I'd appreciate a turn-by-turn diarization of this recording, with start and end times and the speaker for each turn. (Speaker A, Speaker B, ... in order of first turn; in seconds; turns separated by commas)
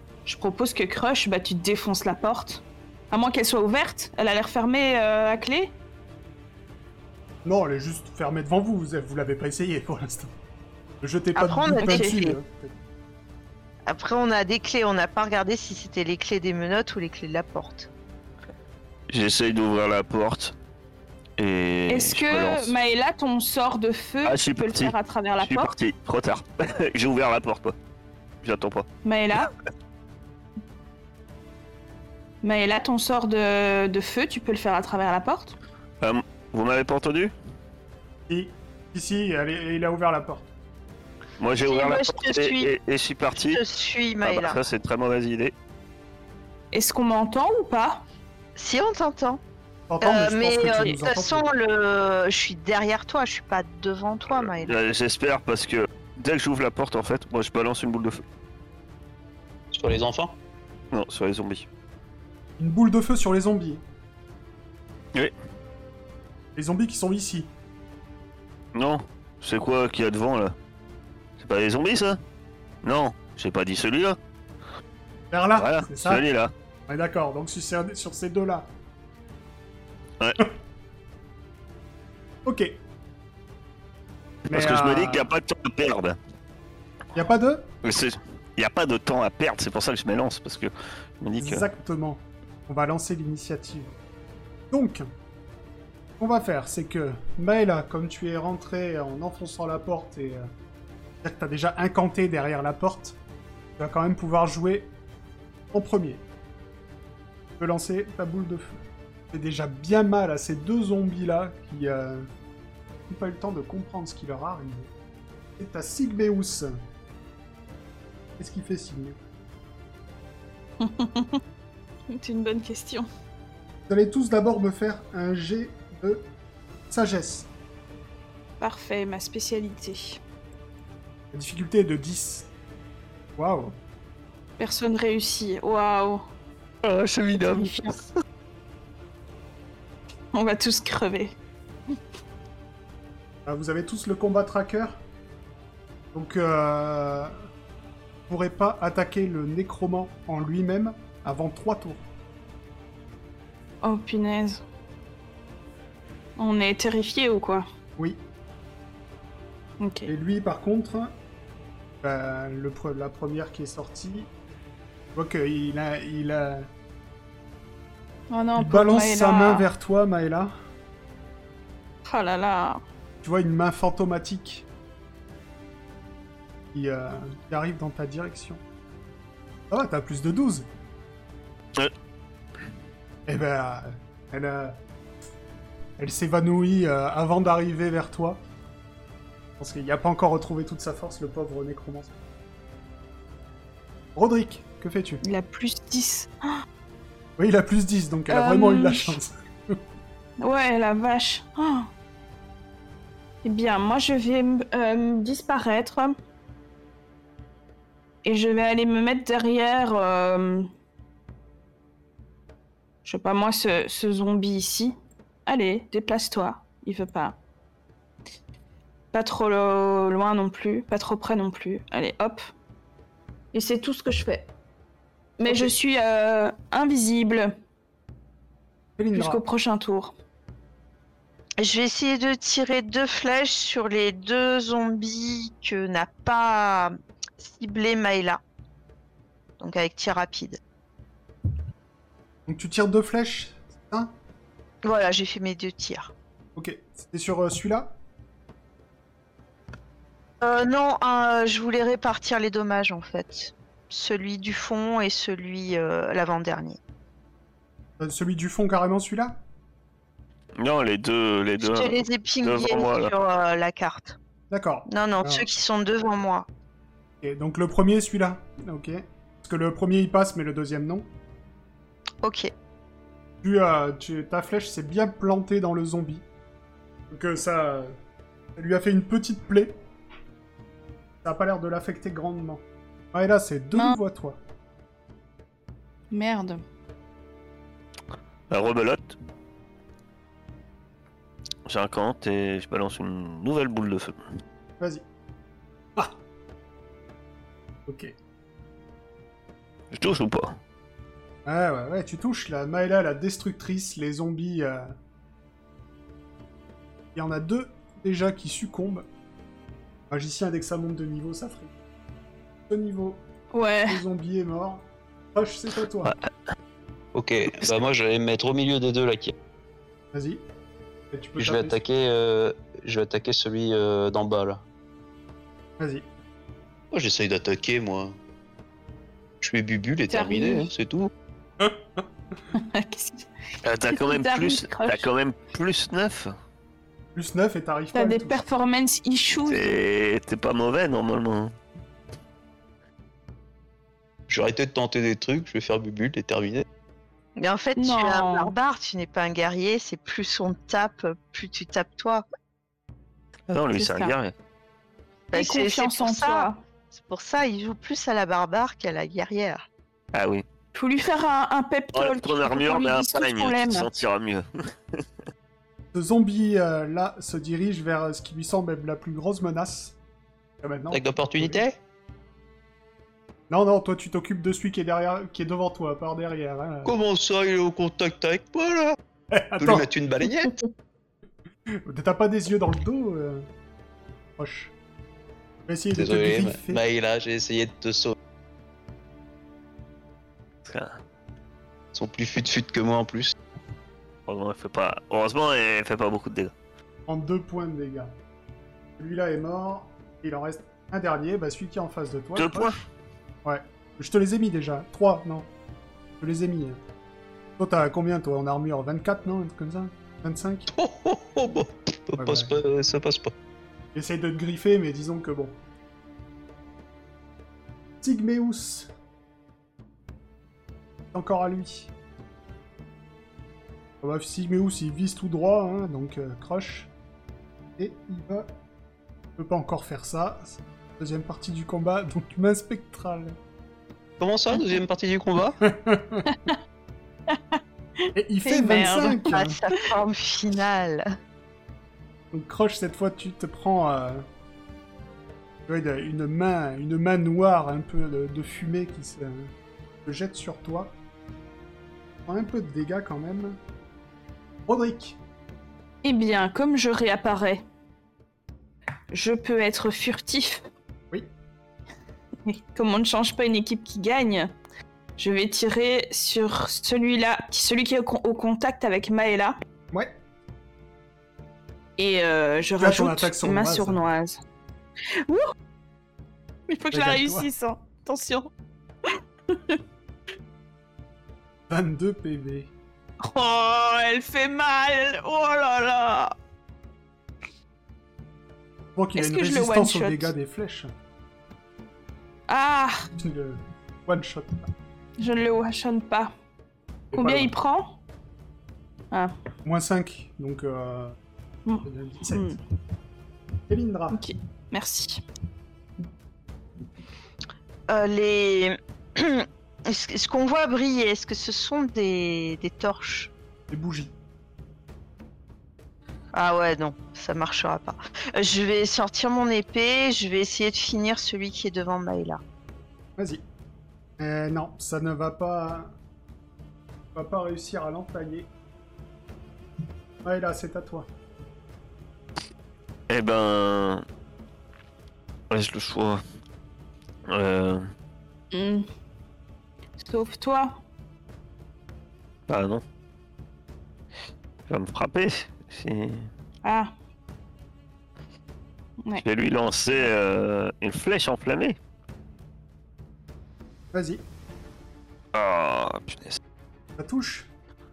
Speaker A: 0.2-5.7, Speaker B: 7.4-10.3, Speaker B: 11.0-12.8, Speaker C: 11.3-12.4, Speaker A: 11.8-12.2, Speaker C: 13.9-17.9, Speaker D: 19.1-20.5, Speaker D: 21.4-22.7, Speaker A: 21.9-25.8, Speaker D: 24.2-27.8, Speaker D: 28.4-28.9, Speaker A: 29.0-29.5, Speaker A: 32.4-35.6, Speaker D: 36.0-37.3, Speaker B: 38.3-40.5, Speaker D: 41.4-43.6, Speaker C: 41.6-42.7, Speaker C: 43.4-44.6, Speaker D: 44.2-45.5, Speaker A: 46.7-48.0, Speaker C: 48.6-49.4, Speaker B: 49.9-51.5, Speaker C: 50.0-54.7, Speaker D: 54.4-58.2, Speaker E: 59.7-60.4, Speaker D: 60.9-61.6, Speaker B: 62.6-63.8, Speaker B: 66.5-67.5, Speaker D: 68.7-70.5, Speaker D: 71.4-72.2, Speaker D: 72.8-74.2, Speaker B: 75.3-76.2, Speaker D: 75.6-76.5, Speaker B: 76.9-78.7, Speaker D: 80.2-80.5, Speaker B: 82.5-82.8, Speaker D: 84.5-86.2, Speaker B: 84.5-85.3, Speaker B: 87.1-87.7, Speaker D: 87.8-91.7, Speaker B: 91.4-94.0, Speaker B: 94.7-95.0, Speaker B: 96.2-100.5, Speaker B: 101.2-103.2, Speaker B: 103.8-104.9, Speaker B: 105.7-106.2, Speaker B: 107.6-108.8, Speaker B: 109.3-112.3, Speaker B: 113.1-114.9, Speaker B: 115.6-116.7, Speaker B: 118.4-119.2, Speaker A: 120.8-121.4, Speaker A: 122.1-123.1, Speaker B: 123.9-126.3, Speaker B: 126.9-127.5, Speaker A: 128.6-130.2, Speaker B: 131.3-132.5, Speaker B: 133.4-133.8, Speaker A: 134.6-136.2, Speaker D: 136.8-138.1, Speaker A: 140.3-141.3, Speaker B: 143.5-145.0, Speaker B: 146.1-147.4, Speaker B: 148.3-152.1, Speaker A: 153.8-154.6, Speaker A: 156.4-157.6, Speaker B: 158.0-158.2, Speaker A: 159.8-160.1, Speaker B: 160.1-161.2, Speaker B: 162.0-164.3, Speaker B: 165.1-166.7, Speaker A: 168.3-169.7, Speaker B: 168.6-170.5, Speaker A: 172.1-172.8, Speaker B: 173.2-174.7, Speaker B: 176.7-178.6, Speaker B: 179.7-180.7, Speaker B: 183.3-184.8, Speaker B: 186.0-188.4, Speaker B: 189.6-192.1, Speaker B: 194.1-195.2, Speaker A: 195.2-196.6, Speaker B: 197.4-199.8, Speaker A: 198.3-199.2, Speaker A: 200.4-201.9, Speaker A: 203.4-206.2, Speaker A: 208.2-210.7, Speaker A: 213.1-214.9, Speaker A: 215.5-217.4, Speaker A: 219.1-222.4, Speaker A: 223.5-224.5, Speaker A: 225.4-227.5, Speaker B: 225.4-225.7, Speaker B: 229.0-229.4, Speaker A: 229.1-230.1, Speaker C: 231.6-238.4, Speaker C: 239.6-240.6, Speaker B: 242.5-244.2, Speaker C: 244.8-246.1, Speaker B: 246.6-248.0, Speaker C: 250.4-256.8, Speaker B: 258.0-259.4, Speaker D: 260.6-263.1, Speaker C: 261.6-264.2, Speaker B: 264.5-265.5, Speaker C: 264.9-266.5, Speaker B: 267.2-271.1, Speaker C: 272.2-272.5, Speaker B: 273.4-276.2, Speaker B: 277.1-278.0, Speaker B: 278.6-279.8, Speaker B: 281.2-284.4, Speaker A: 286.1-286.6, Speaker D: 288.5-289.1, Speaker D: 291.6-294.2, Speaker B: 297.9-298.1, Speaker D: 299.9-300.6, Speaker B: 301.5-304.9, Speaker B: 307.1-309.1, Speaker B: 310.1-311.7, Speaker B: 312.7-313.2, Speaker A: 313.5-314.0, Speaker B: 313.9-316.1, Speaker E: 317.1-319.3, Speaker B: 320.1-320.4, Speaker B: 321.1-321.8, Speaker E: 321.4-324.6, Speaker B: 325.8-326.1, Speaker E: 326.9-328.1, Speaker E: 329.4-331.1, Speaker A: 330.1-330.7, Speaker B: 331.6-332.0, Speaker A: 332.5-333.3, Speaker D: 333.6-336.4, Speaker A: 333.9-335.1, Speaker B: 337.1-338.4, Speaker A: 337.9-339.8, Speaker D: 339.4-341.5, Speaker E: 344.3-346.6, Speaker C: 347.4-352.2, Speaker A: 347.8-348.5, Speaker D: 353.5-354.3, Speaker A: 353.7-354.1, Speaker C: 355.3-359.6, Speaker A: 355.3-356.6, Speaker D: 360.1-360.4, Speaker A: 360.7-363.9, Speaker D: 361.9-365.0, Speaker B: 365.9-370.0, Speaker B: 370.6-371.6, Speaker E: 370.9-371.8, Speaker B: 373.5-376.9, Speaker E: 376.9-379.0, Speaker B: 379.3-379.9, Speaker E: 379.6-380.6, Speaker B: 381.7-383.5, Speaker B: 384.4-384.7, Speaker B: 385.7-386.8, Speaker E: 385.9-388.1, Speaker D: 390.6-391.0, Speaker E: 391.9-393.4, Speaker D: 394.3-396.5, Speaker B: 397.1-398.1, Speaker B: 399.0-402.9, Speaker D: 402.4-402.8, Speaker B: 403.4-405.5, Speaker B: 406.2-406.8, Speaker B: 407.6-410.7, Speaker E: 410.7-413.3, Speaker B: 412.2-412.6, Speaker B: 413.9-415.6, Speaker B: 418.0-418.9, Speaker B: 421.1-421.9, Speaker B: 424.0-426.9, Speaker B: 427.8-428.5, Speaker B: 429.4-433.4, Speaker E: 434.2-435.6, Speaker B: 435.6-436.3, Speaker A: 436.2-436.6, Speaker A: 437.3-439.3, Speaker B: 438.1-439.6, Speaker C: 439.3-441.1, Speaker B: 442.3-444.2, Speaker B: 445.7-449.5, Speaker B: 450.0-450.9, Speaker B: 452.2-453.6, Speaker B: 454.7-455.2, Speaker A: 456.0-457.6, Speaker A: 459.1-460.6, Speaker A: 462.5-464.5, Speaker A: 465.2-469.6, Speaker A: 472.0-474.4, Speaker B: 472.8-474.0, Speaker A: 475.1-475.5, Speaker A: 476.7-478.5, Speaker B: 476.9-477.5, Speaker A: 479.5-479.8, Speaker B: 481.7-482.7, Speaker A: 483.2-486.3, Speaker B: 488.9-490.9, Speaker A: 489.2-490.3, Speaker A: 492.5-493.1, Speaker B: 493.2-494.7, Speaker A: 495.2-496.3, Speaker B: 497.1-497.5, Speaker A: 497.1-498.0, Speaker B: 499.6-501.2, Speaker A: 501.7-502.6, Speaker B: 501.8-502.5, Speaker B: 503.7-504.2, Speaker A: 504.1-505.2, Speaker C: 507.9-513.3, Speaker B: 513.7-514.1, Speaker C: 516.3-522.4, Speaker B: 523.2-523.4, Speaker B: 524.2-526.0, Speaker B: 527.1-528.5, Speaker B: 530.2-531.1, Speaker D: 533.1-534.0, Speaker D: 535.5-536.2, Speaker D: 537.3-537.9, Speaker A: 538.5-538.9, Speaker A: 540.0-540.8, Speaker D: 542.5-542.8, Speaker D: 544.7-546.3, Speaker A: 546.6-546.9, Speaker D: 549.2-551.8, Speaker B: 553.9-554.2, Speaker D: 555.3-556.4, Speaker B: 557.0-557.5